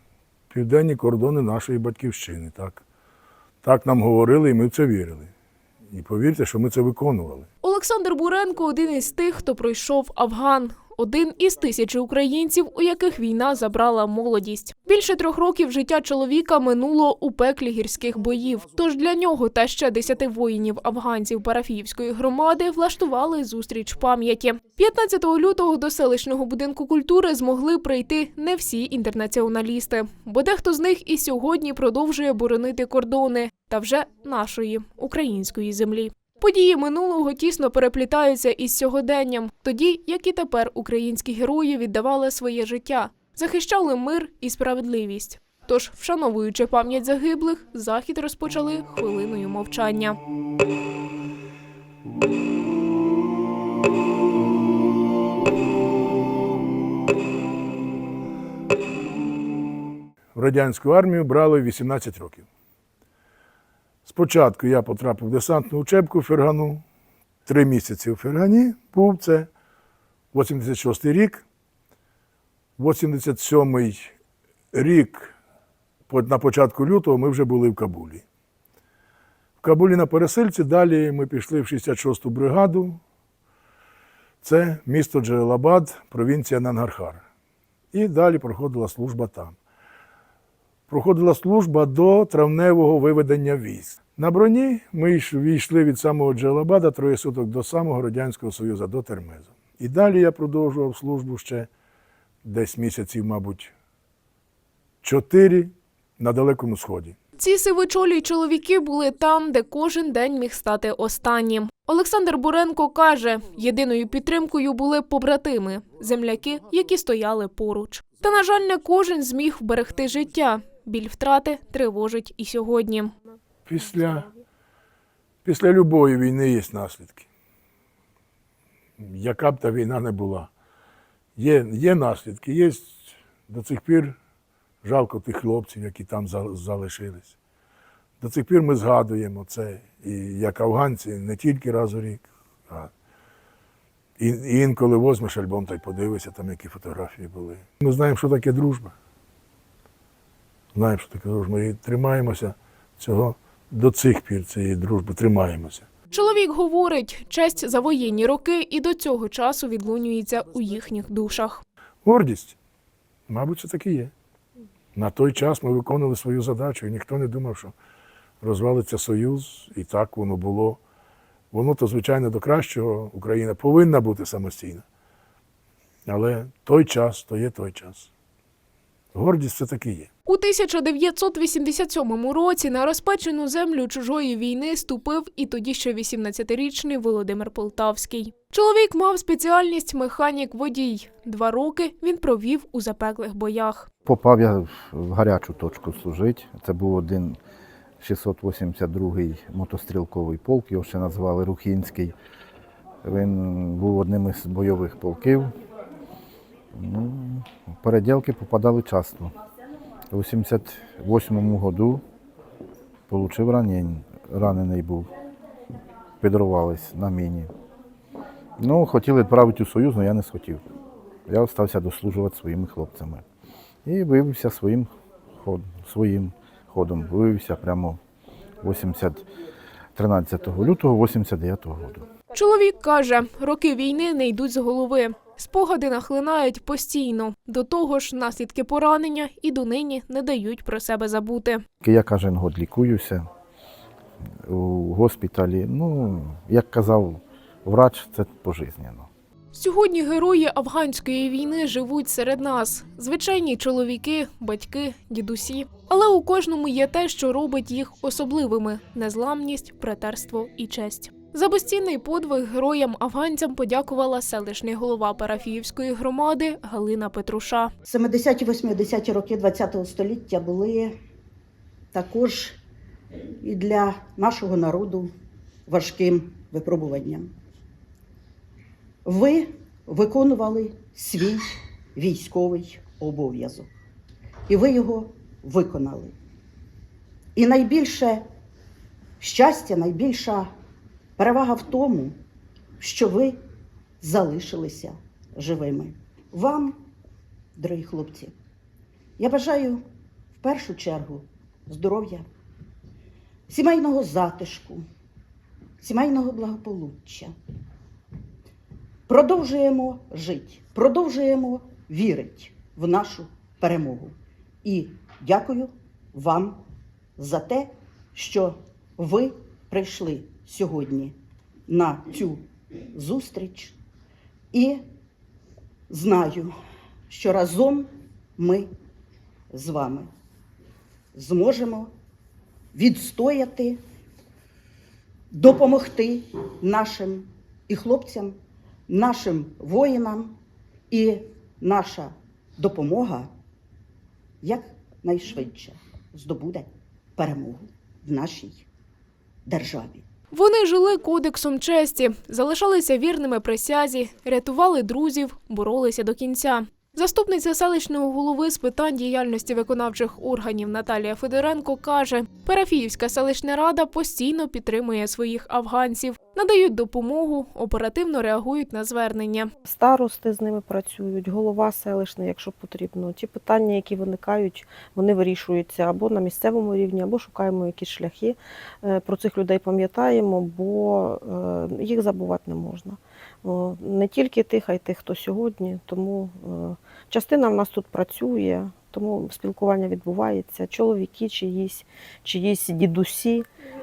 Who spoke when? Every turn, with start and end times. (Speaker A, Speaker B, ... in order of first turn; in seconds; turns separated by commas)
Speaker A: 0.5-2.8, Speaker A: 3.6-5.3, Speaker A: 5.9-7.5, Speaker B: 7.6-50.2, Speaker A: 60.3-62.5, Speaker A: 64.0-66.8, Speaker A: 67.5-69.5, Speaker A: 70.3-71.4, Speaker A: 72.8-74.1, Speaker A: 74.7-75.3, Speaker A: 76.1-78.2, Speaker A: 79.6-83.0, Speaker A: 84.4-87.2, Speaker A: 87.9-89.5, Speaker A: 90.9-101.7, Speaker A: 102.4-103.7, Speaker A: 105.0-107.2, Speaker B: 107.4-123.1, Speaker A: 123.7-124.3, Speaker A: 125.4-127.2, Speaker A: 129.0-130.5, Speaker A: 131.3-134.2, Speaker A: 134.8-137.3, Speaker A: 138.2-142.9, Speaker A: 144.2-148.9, Speaker A: 150.7-155.9, Speaker B: 156.1-161.6, Speaker A: 162.0-162.6, Speaker A: 163.3-164.1, Speaker A: 164.9-167.7, Speaker A: 168.4-170.8, Speaker A: 171.5-174.8, Speaker A: 176.1-178.1, Speaker A: 179.1-180.1, Speaker B: 180.2-193.9, Speaker C: 194.0-197.4, Speaker C: 198.0-202.1, Speaker C: 203.0-205.6, Speaker C: 206.7-209.3, Speaker C: 210.1-212.0, Speaker C: 213.1-215.1, Speaker C: 216.2-217.5, Speaker C: 218.6-220.6, Speaker C: 221.3-223.2, Speaker C: 223.8-228.0, Speaker C: 228.6-229.3, Speaker C: 229.9-232.1, Speaker B: 232.3-241.6, Speaker C: 241.8-243.3, Speaker C: 244.4-249.1, Speaker B: 249.5-267.7, Speaker D: 267.9-270.9, Speaker D: 271.9-272.6, Speaker D: 273.4-275.1, Speaker D: 275.7-277.3, Speaker D: 279.0-283.7, Speaker D: 284.5-286.1, Speaker D: 287.3-288.2, Speaker D: 289.2-290.5, Speaker D: 291.2-292.1, Speaker D: 292.8-293.4, Speaker D: 294.0-296.7, Speaker D: 297.6-298.3, Speaker D: 299.2-299.8, Speaker D: 300.4-302.2, Speaker D: 303.5-304.8, Speaker D: 305.8-307.3, Speaker D: 309.1-316.6, Speaker D: 317.2-321.1, Speaker D: 321.7-323.8, Speaker D: 324.5-324.8, Speaker D: 325.9-326.5, Speaker D: 327.1-328.7, Speaker D: 329.5-330.1, Speaker D: 331.1-331.9, Speaker D: 332.7-333.8, Speaker D: 335.3-338.4, Speaker D: 338.9-340.4, Speaker D: 340.9-343.3, Speaker D: 344.4-348.6, Speaker D: 349.4-350.0, Speaker B: 350.3-369.5, Speaker E: 369.6-393.4